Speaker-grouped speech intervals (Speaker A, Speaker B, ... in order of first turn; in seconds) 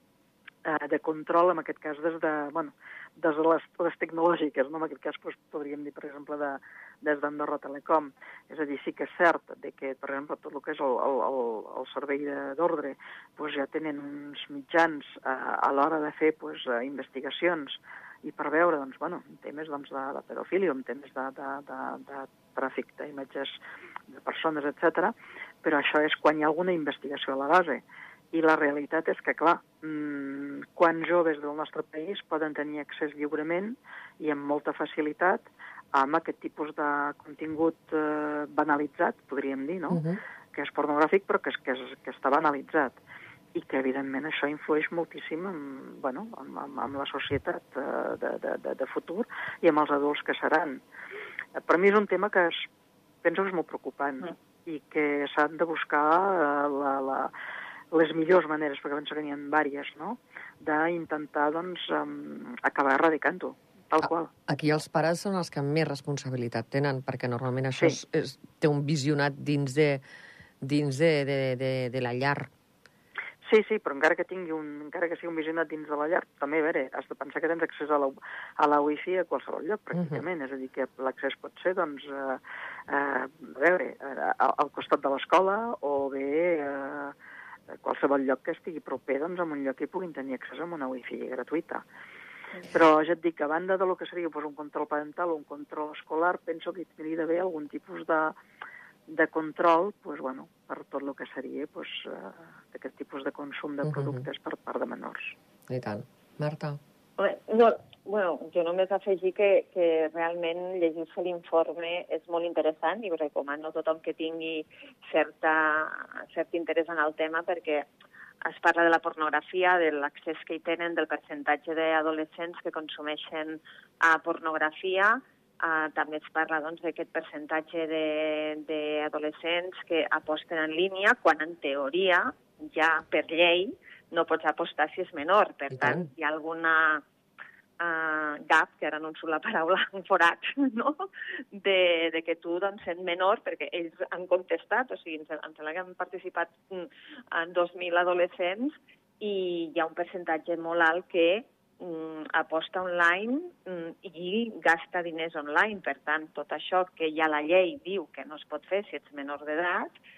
Speaker A: 0.7-23.6, 24.1-40.0, 40.5-43.0, 43.5-50.8, 51.6-52.7, 53.2-57.3, 57.9-64.3, 73.5-87.1, 87.7-91.8, 92.7-98.4, 99.1-105.3
Speaker B: 39.9-40.2, 64.0-70.0, 70.6-72.5, 79.9-80.2, 103.8-104.2, 105.7-106.8, 135.7-136.1
Speaker C: 107.2-117.9, 118.5-137.0, 137.8-159.9